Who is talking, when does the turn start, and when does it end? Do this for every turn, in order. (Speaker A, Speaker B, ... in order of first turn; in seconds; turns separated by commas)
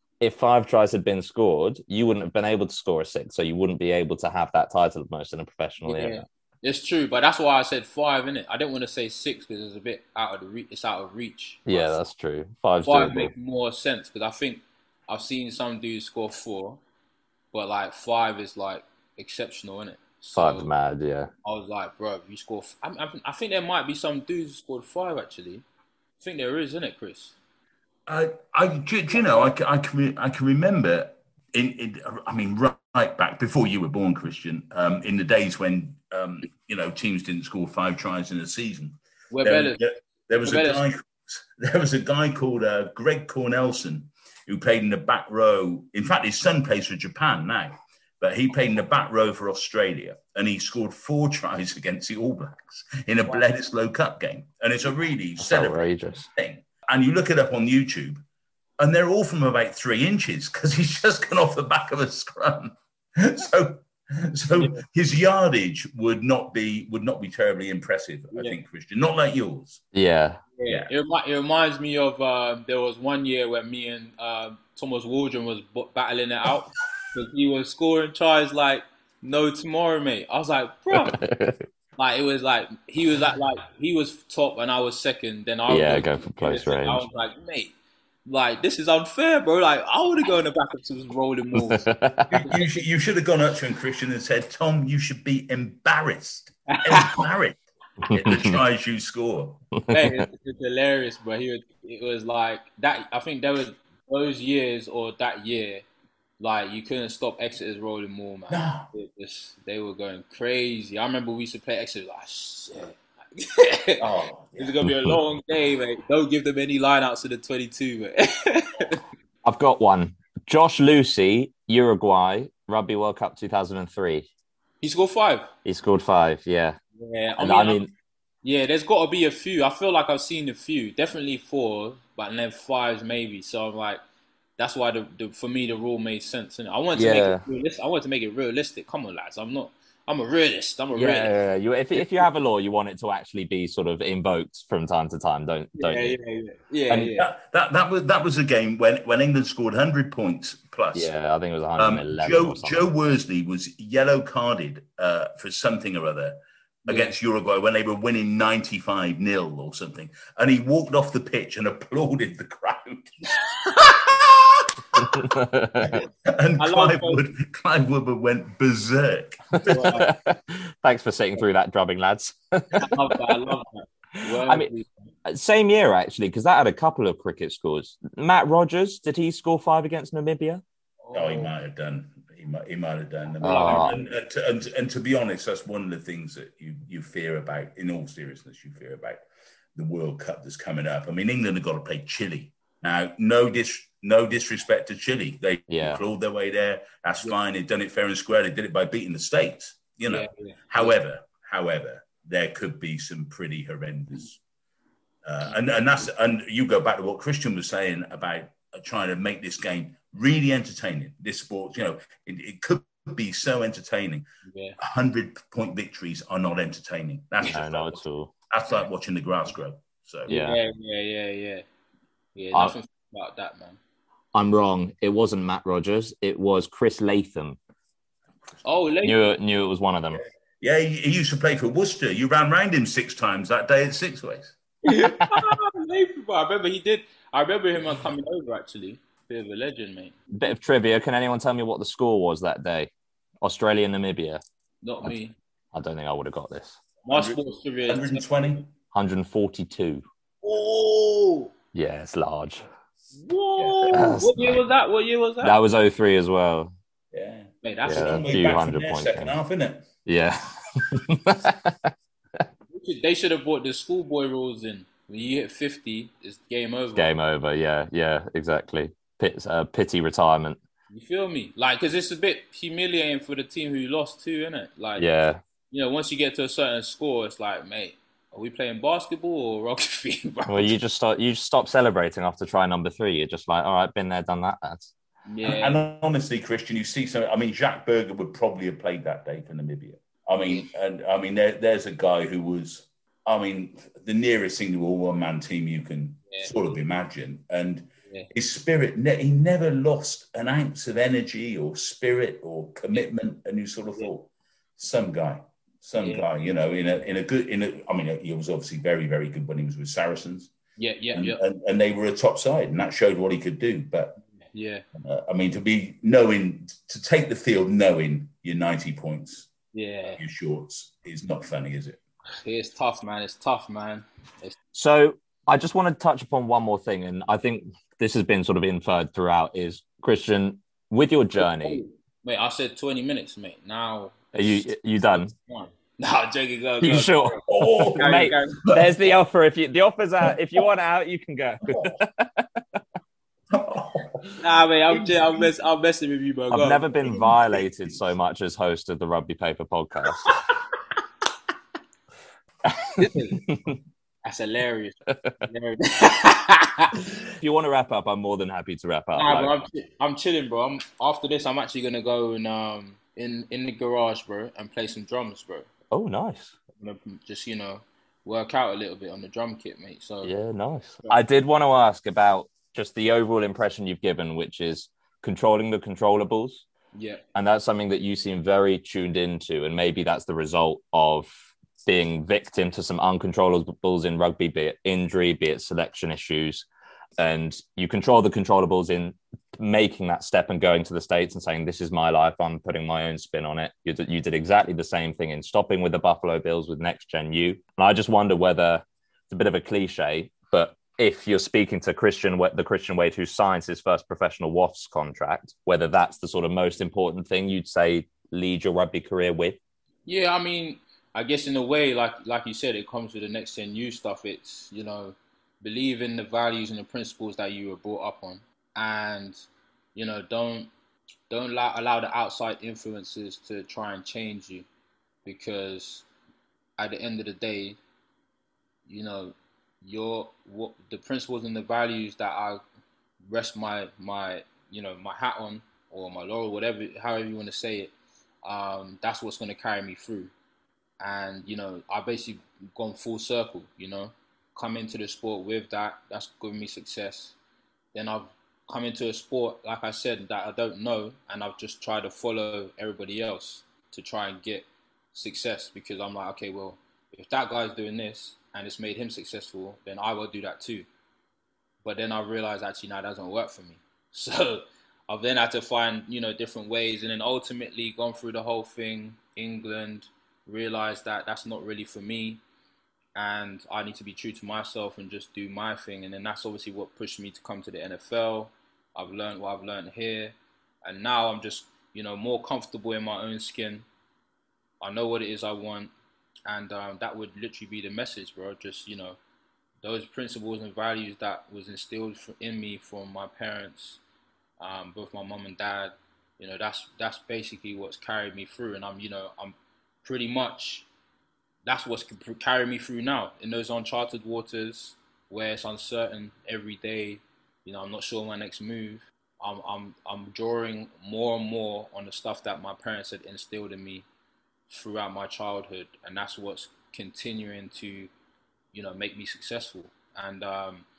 Speaker A: 0.2-6.2, Speaker B: 5.8-12.0, Speaker A: 11.7-13.3, Speaker B: 12.8-16.8, Speaker B: 17.5-20.7, Speaker A: 20.3-21.3, Speaker B: 21.4-25.6, Speaker B: 26.2-27.4, Speaker C: 28.1-58.2, Speaker B: 29.1-29.5, Speaker B: 39.3-39.8, Speaker B: 40.4-40.8, Speaker A: 55.4-56.3, Speaker C: 58.8-69.8, Speaker B: 64.5-64.8, Speaker B: 68.3-68.6, Speaker A: 69.9-70.4, Speaker B: 70.6-81.2, Speaker A: 80.9-81.7, Speaker B: 82.0-91.9, Speaker A: 85.7-87.1, Speaker A: 91.5-92.5, Speaker C: 92.3-99.6, Speaker B: 92.4-92.7, Speaker B: 96.8-97.2, Speaker A: 98.0-98.6, Speaker A: 99.8-100.2, Speaker B: 99.9-105.8, Speaker B: 106.4-114.0, Speaker C: 108.5-108.9, Speaker C: 114.0-114.7, Speaker B: 114.6-119.0, Speaker A: 114.8-115.2, Speaker A: 119.4-124.3, Speaker B: 124.8-125.5, Speaker A: 125.6-126.8, Speaker B: 127.0-127.8, Speaker A: 127.4-127.9, Speaker B: 128.4-134.0, Speaker B: 134.6-141.3, Speaker A: 136.9-137.4, Speaker A: 140.9-146.2, Speaker B: 141.9-142.2, Speaker B: 145.8-147.3, Speaker C: 147.2-151.1, Speaker A: 150.9-152.8, Speaker C: 151.8-163.2, Speaker B: 156.8-157.1, Speaker C: 163.8-165.1, Speaker A: 165.0-166.0, Speaker C: 166.3-169.8, Speaker B: 166.6-167.2, Speaker A: 169.5-173.6, Speaker B: 169.7-170.1, Speaker B: 172.8-174.9, Speaker A: 174.2-174.7, Speaker A: 175.2-180.6, Speaker B: 181.0-181.5, Speaker C: 181.1-189.2, Speaker B: 183.4-184.1, Speaker A: 183.4-184.0, Speaker C: 189.8-204.4, Speaker A: 195.7-196.0, Speaker B: 200.1-201.0, Speaker C: 205.2-214.2, Speaker B: 205.4-206.1, Speaker B: 214.4-214.8, Speaker C: 214.8-220.3, Speaker A: 217.5-218.3, Speaker A: 220.3-220.6, Speaker B: 220.3-221.6, Speaker B: 222.3-223.8, Speaker A: 224.3-227.6, Speaker B: 228.6-229.3, Speaker A: 229.0-230.2, Speaker C: 230.1-234.6, Speaker B: 234.8-240.2, Speaker A: 235.0-235.5, Speaker A: 240.3-242.9, Speaker A: 243.4-244.4, Speaker B: 244.8-245.3, Speaker A: 245.7-246.8, Speaker B: 247.1-248.6, Speaker C: 247.1-248.7, Speaker A: 248.9-250.0, Speaker B: 250.4-251.5, Speaker A: 251.7-252.7, Speaker B: 253.1-255.6, Speaker C: 253.6-254.1, Speaker A: 253.9-254.6, Speaker A: 255.4-256.7, Speaker C: 257.1-259.9, Speaker B: 257.6-258.4, Speaker A: 257.9-259.4, Speaker A: 260.1-262.4, Speaker B: 262.7-267.1, Speaker A: 266.9-270.6, Speaker B: 270.9-275.1, Speaker A: 274.9-275.4, Speaker B: 275.7-280.7, Speaker A: 280.5-284.9, Speaker B: 285.3-285.8, Speaker C: 285.4-310.5, Speaker B: 290.4-290.7, Speaker B: 296.3-296.5, Speaker B: 306.0-306.2, Speaker B: 310.8-311.4, Speaker C: 311.1-314.2, Speaker B: 314.3-314.8, Speaker C: 315.0-319.5, Speaker B: 319.7-320.2, Speaker C: 320.1-322.0, Speaker B: 322.4-324.6, Speaker A: 324.7-331.8, Speaker B: 331.4-338.6, Speaker A: 334.3-335.3, Speaker A: 336.8-342.8, Speaker C: 337.5-338.8, Speaker C: 340.2-340.6, Speaker C: 343.5-345.5, Speaker B: 344.4-346.9, Speaker A: 346.5-350.3, Speaker C: 347.1-347.9, Speaker A: 352.7-353.8, Speaker B: 353.0-353.4, Speaker B: 354.2-357.0, Speaker A: 355.1-355.4, Speaker A: 357.4-359.6, Speaker B: 359.1-365.7, Speaker A: 365.9-366.6, Speaker B: 366.8-370.3, Speaker A: 370.2-376.6, Speaker B: 376.9-377.2, Speaker A: 377.3-386.7, Speaker A: 387.2-409.6, Speaker B: 410.1-420.7, Speaker B: 421.3-424.7, Speaker B: 425.2-426.1, Speaker B: 426.8-427.8, Speaker B: 428.9-432.6, Speaker B: 433.2-437.9, Speaker B: 438.4-440.3, Speaker B: 441.0-447.4, Speaker B: 447.9-460.9, Speaker B: 461.8-472.4, Speaker B: 473.1-483.9, Speaker B: 484.8-485.9, Speaker B: 486.5-489.2, Speaker B: 489.8-494.0, Speaker B: 494.6-500.9, Speaker B: 501.6-514.1, Speaker B: 514.7-518.1, Speaker B: 518.7-520.9